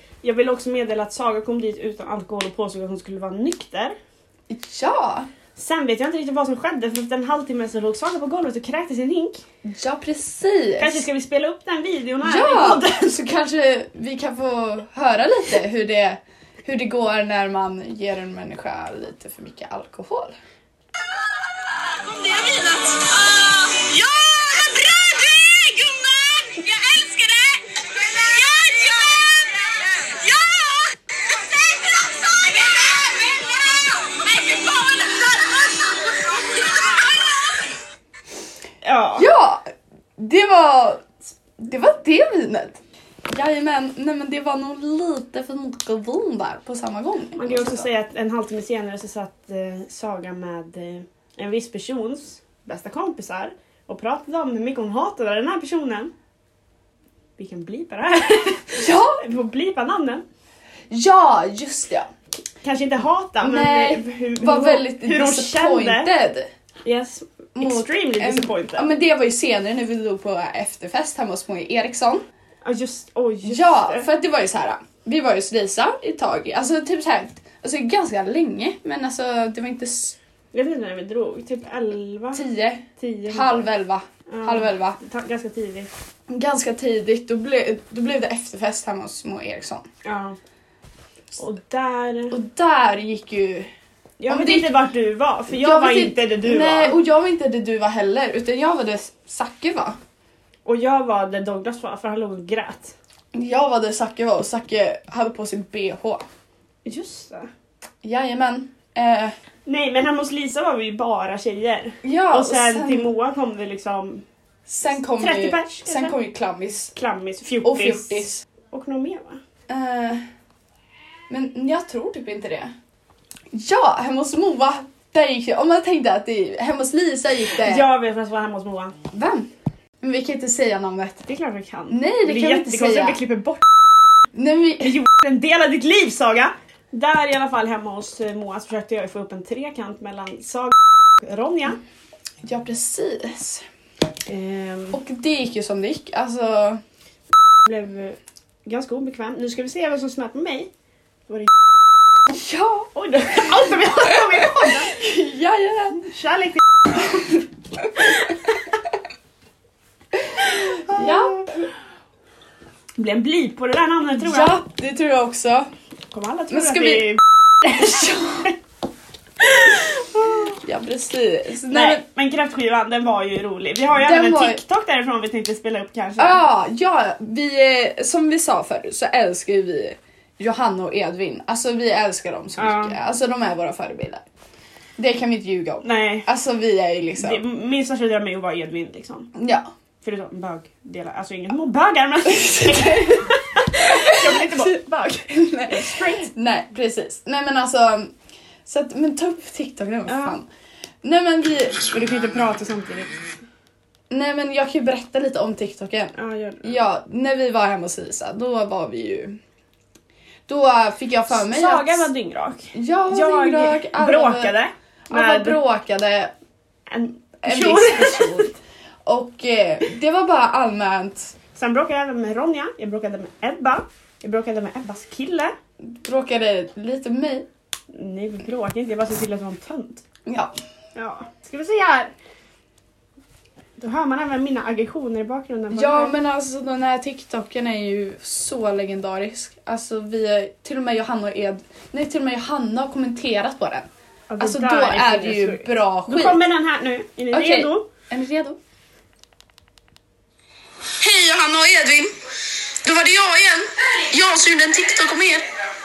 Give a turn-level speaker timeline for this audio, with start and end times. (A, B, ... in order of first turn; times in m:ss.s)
0:00.2-0:04.0 A
0:04.5-0:05.3 B
0:05.6-0:09.4 A
0:09.6-0:11.0 B
0:10.8-0:13.2 A
0:12.2-0:20.4 B
0:22.0-0:25.6 C
0:23.8-0:26.6 B
0:26.3-0:27.3 C
0:28.1-0:29.4 C
0:31.6-0:37.3 C
0:38.8-0:39.3 A
0:39.2-0:47.9 B
0:47.4-0:56.1 A
0:57.4-1:00.2 A
0:58.8-0:59.2 B
1:00.9-1:02.1 B
1:02.6-1:06.1 A
1:03.4-1:06.5 B
1:06.8-1:08.9 A
1:07.6-1:12.2 B
1:12.6-1:14.1 A
1:13.4-1:20.2 B
1:20.5-1:22.4 A
1:22.3-1:25.0 B
1:23.0-1:23.7 A
1:24.3-1:25.9 A
1:26.3-1:29.8 B
1:30.0-1:30.4 A
1:31.4-1:32.4 A
1:32.3-1:33.7 B
1:34.2-1:37.0 A
1:34.3-1:34.8 B
1:35.5-1:40.0 B
1:40.6-1:42.9 A
1:43.3-1:46.2 B
1:46.8-1:47.5 A
1:48.0-1:49.3 B
1:49.7-1:54.2 A
1:52.0-1:53.1 B
1:54.7-1:56.9 B
1:55.2-1:56.2 A
1:56.9-1:59.4 A
1:57.6-1:58.4 B
1:59.7-2:00.2 B
2:01.3-2:02.7 B
2:03.5-2:07.9 B
2:07.5-2:08.9 A
2:09.1-2:09.5 B
2:10.0-2:11.2 B
2:11.2-2:13.6 A
2:11.9-2:13.2 B
2:14.3-2:15.0 B
2:14.8-2:21.8 A
2:22.4-2:23.6 B
2:24.2-2:25.0 A
2:24.9-2:26.8 B
2:27.6-2:30.7 A
2:32.3-2:36.1 B
2:32.9-2:35.0 A
2:36.0-2:36.6 A
2:37.0-2:38.5 B
2:40.3-2:41.4 B
2:40.4-2:41.6 A
2:43.0-2:44.6 A
2:44.2-2:45.7 B
2:46.1-2:47.2 A
2:46.5-2:48.5 B
2:49.4-2:50.6 A
2:50.6-2:52.0 B
2:51.7-2:56.4 A
2:53.9-2:54.6 B
2:56.2-3:04.2 B
3:02.6-3:03.0 A
3:05.0-3:07.4 B
3:05.8-3:06.3 A
3:07.2-3:09.3 A
3:09.3-3:09.7 B
3:10.0-3:16.3 A
3:12.2-3:14.7 B
3:15.3-3:18.1 B
3:18.6-3:20.5 B
3:20.1-3:20.4 A
3:21.0-3:21.9 B
3:21.9-3:23.2 A
3:24.1-3:29.4 B
3:26.2-3:26.8 A
3:30.5-3:32.1 B
3:31.3-3:35.6 A
3:32.7-3:34.6 B
3:35.1-3:36.3 B
3:36.9-3:38.5 A
3:37.4-3:38.5 B
3:39.0-3:41.3 B
3:41.5-3:45.5 A
3:45.8-3:47.5 B
3:47.9-3:50.0 A
3:50.2-3:50.5 B
3:50.9-3:52.1 A
3:53.8-3:56.1 A
3:55.7-4:03.9 B
4:04.3-4:07.9 A
4:04.4-4:06.4 B
4:07.3-4:08.6 B
4:11.0-4:12.1 B
4:12.8-4:15.4 B